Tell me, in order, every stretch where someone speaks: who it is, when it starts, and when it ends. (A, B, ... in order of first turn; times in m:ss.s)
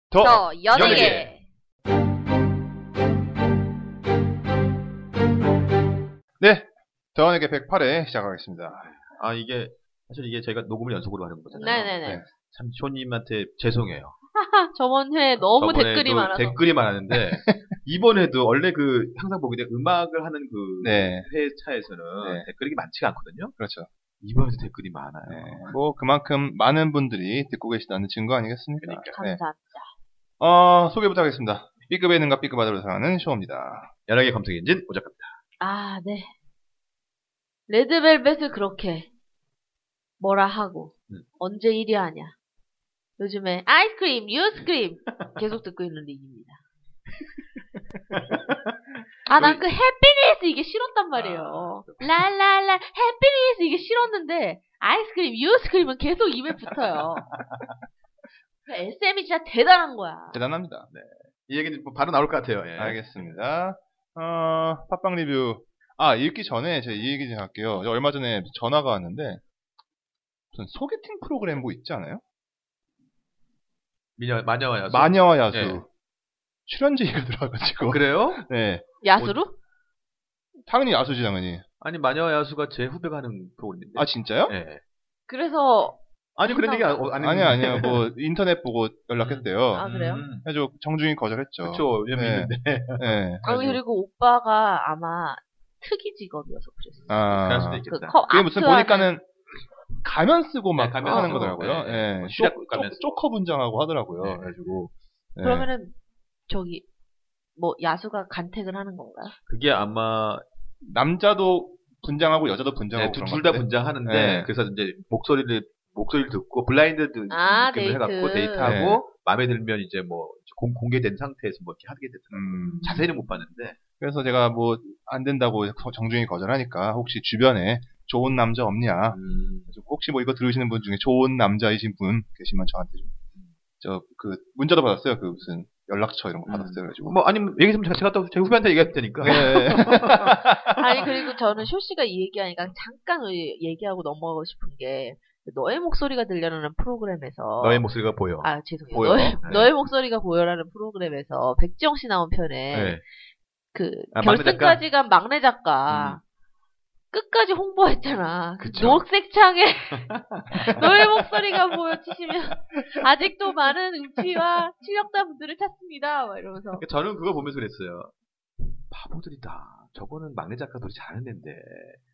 0:00.1-0:01.2 A
0:00.2-0:01.4 B
0:00.7-0:01.3 C
0:06.4-0:08.9 A
0:08.8-0:14.2 C
0:11.5-0:12.2 B
0:14.4-0:16.6 B
0:15.6-0:23.6 C
0:20.8-0:21.3 A
0:23.6-0:23.9 A
0:24.2-0:25.8 C
0:25.3-0:29.4 A
0:28.8-0:29.2 C
0:29.1-0:29.9 B
0:30.4-0:33.9 A
0:34.1-0:35.4 C
0:35.6-0:36.3 B
0:37.7-0:39.1 B
0:40.2-0:42.3 B
0:43.2-0:46.6 B
0:48.1-0:48.8 C
0:49.2-0:57.3 B
0:49.4-0:49.6 C
0:51.1-0:52.1 C
0:57.3-0:57.7 C
0:58.6-1:00.4 B
1:00.3-1:00.9 A
1:00.9-1:03.2 C
1:02.8-1:09.4 A
1:10.5-1:12.2 A
1:14.2-1:15.8 C
1:14.9-1:15.9 A
1:16.7-1:18.9 A
1:17.9-1:18.4 C
1:19.0-1:19.5 B
1:20.7-1:21.6 A
1:21.8-1:24.8 C
1:23.9-1:24.5 A
1:25.3-1:27.1 B
1:26.4-1:28.0 C
1:27.2-1:33.4 A
1:29.2-1:30.5 C
1:29.7-1:30.2 B
1:31.6-1:33.8 C
1:33.4-1:37.2 B
1:37.1-1:38.2 C
1:37.1-1:39.2 A
1:37.9-1:39.1 B
1:40.0-1:45.7 A
1:40.8-1:43.2 C
1:41.0-1:41.5 B
1:44.2-1:44.8 C
1:45.4-1:46.0 B
1:46.5-1:46.8 B
1:47.6-1:49.3 B
1:49.5-1:50.4 C
1:50.9-1:54.5 A
1:52.9-2:03.8 C
1:57.3-1:58.8 B
1:58.6-1:59.0 A
2:02.3-2:03.0 A
2:04.0-2:13.1 A
2:09.1-2:09.7 C
2:13.8-2:17.2 A
2:16.5-2:21.1 C
2:19.2-2:20.4 A
2:20.7-2:33.0 B
2:27.6-2:29.7 C
2:32.7-2:33.0 C
2:33.7-2:36.2 B
2:34.1-2:34.8 C
2:35.9-2:36.2 C
2:37.1-2:46.8 B
2:38.6-2:39.0 C
2:40.0-2:41.9 C
2:46.8-2:48.1 C
2:48.8-2:52.0 C